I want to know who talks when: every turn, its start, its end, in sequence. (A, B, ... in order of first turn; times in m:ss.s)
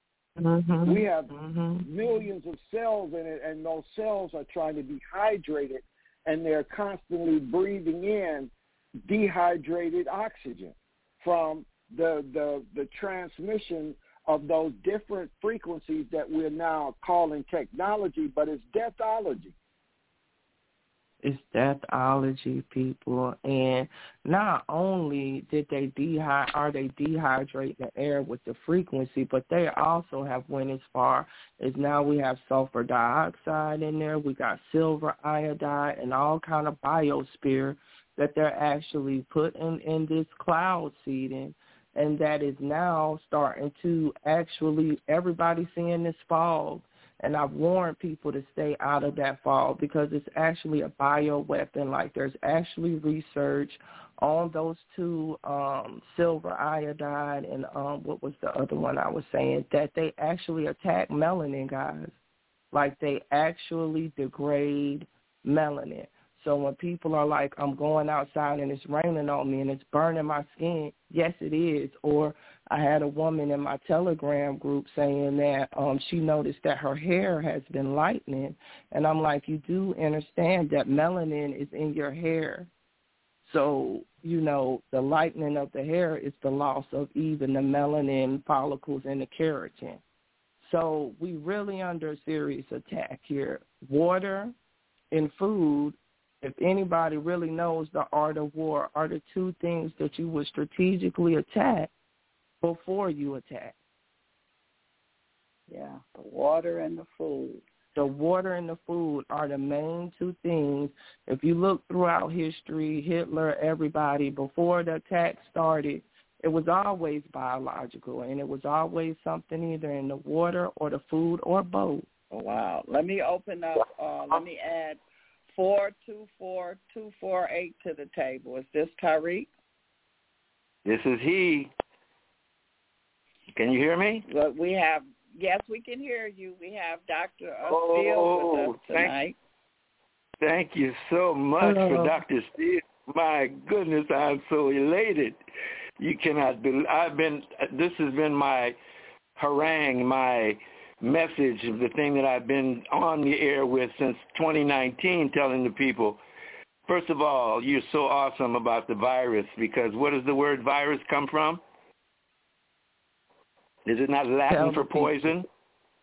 0:00.4-0:01.9 A
0:00.8-0:01.3 B
0:01.8-0:08.5 B
0:09.0-0:19.5 B
0:21.2-1:02.1 A
1:02.7-1:22.7 A
1:23.4-1:30.0 A
1:30.6-1:34.5 A
1:35.1-1:41.9 A
1:42.6-1:43.7 A
1:45.7-1:47.6 C
1:47.9-2:02.0 A
2:02.3-2:05.0 C
2:05.5-2:09.5 C
2:10.8-2:11.7 D
2:13.5-2:14.2 D
2:14.2-2:19.4 C
2:17.7-2:19.2 D
2:20.4-2:25.4 D
2:21.6-2:22.2 A
2:26.0-2:28.8 D
2:29.4-2:36.2 D
2:36.9-2:41.6 D
2:43.8-2:45.5 D
2:44.5-2:45.4 A